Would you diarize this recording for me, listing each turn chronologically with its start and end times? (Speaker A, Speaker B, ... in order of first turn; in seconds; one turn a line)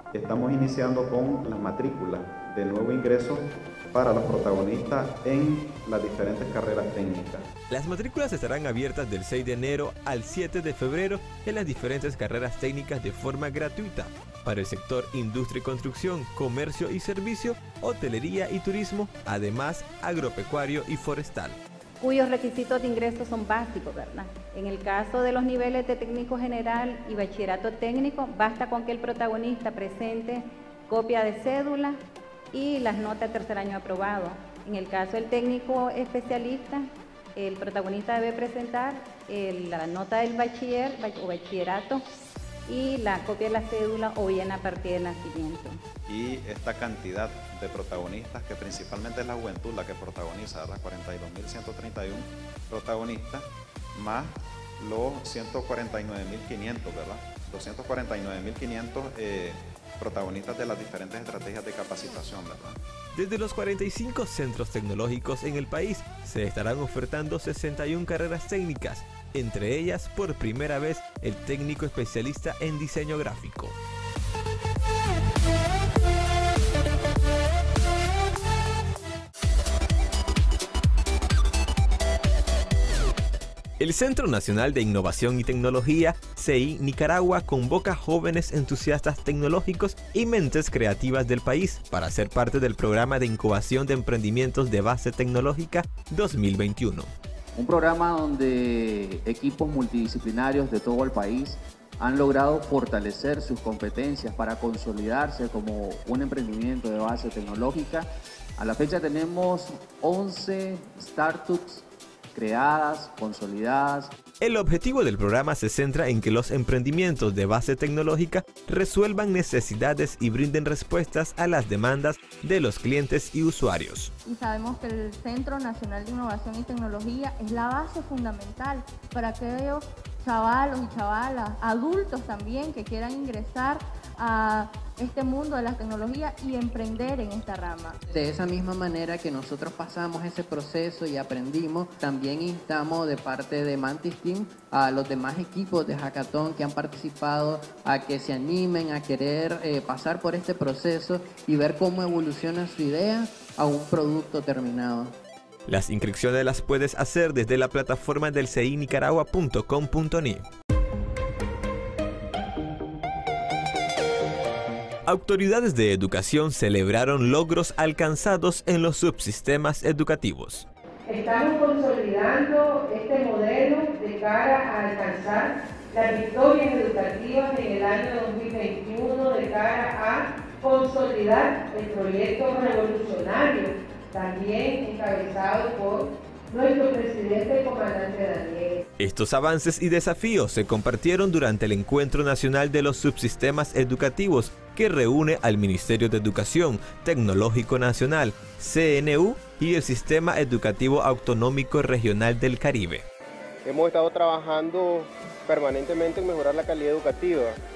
Speaker A: 0.1-7.5
Speaker B: 7.7-21.6
Speaker C: 22.0-32.0
Speaker C: 32.5-36.8
Speaker C: 37.4-42.0
Speaker C: 42.7-45.8
Speaker A: 46.1-62.8
Speaker B: 63.1-73.8
Speaker B: 83.8-97.1
Speaker D: 97.5-114.1
Speaker B: 114.4-124.1
Speaker E: 124.2-138.0
Speaker F: 138.1-155.2
Speaker B: 155.7-160.4
Speaker B: 165.1-170.7
Speaker G: 171.1-188.8
Speaker B: 189.0-203.1
Speaker H: 203.7-204.8
Speaker H: 205.5-207.5